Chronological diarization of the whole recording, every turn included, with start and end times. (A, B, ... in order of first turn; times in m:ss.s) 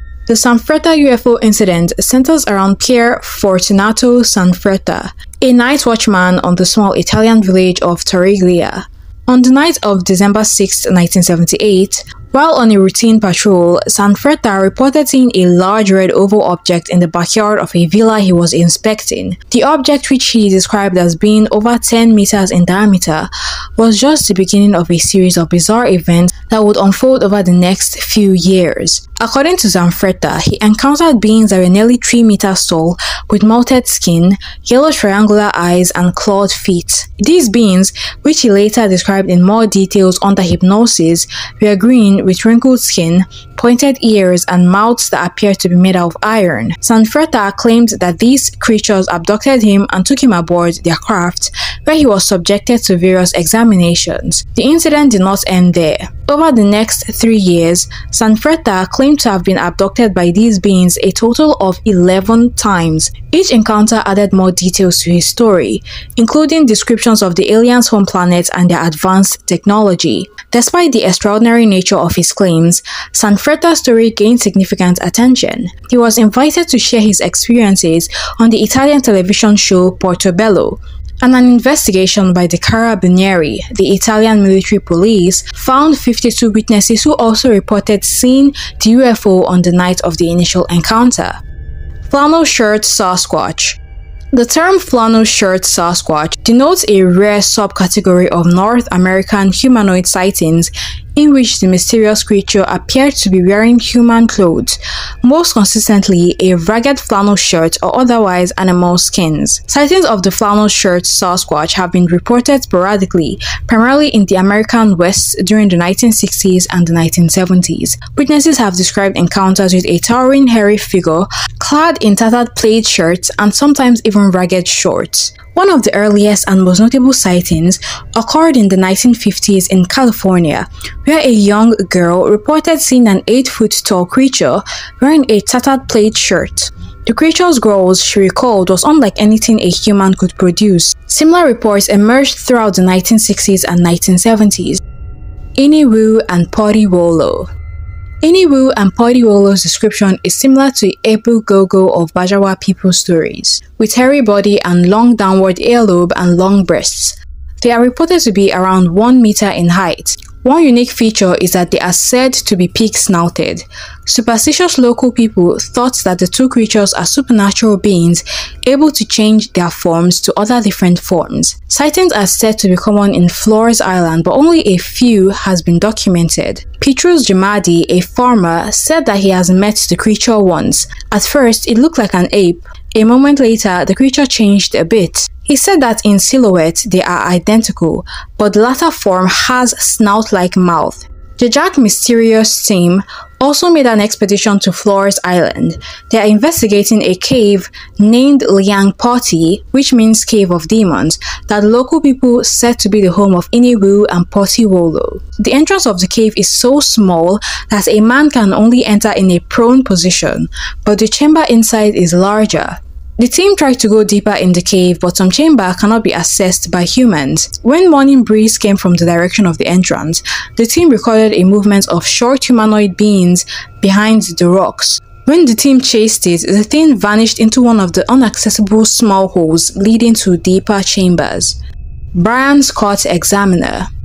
0:00.3-1:31.4 A
1:32.1-1:33.8 A
1:34.3-2:24.8 A
2:25.6-2:27.5 A
2:28.2-3:51.6 A
3:52.1-3:53.9 A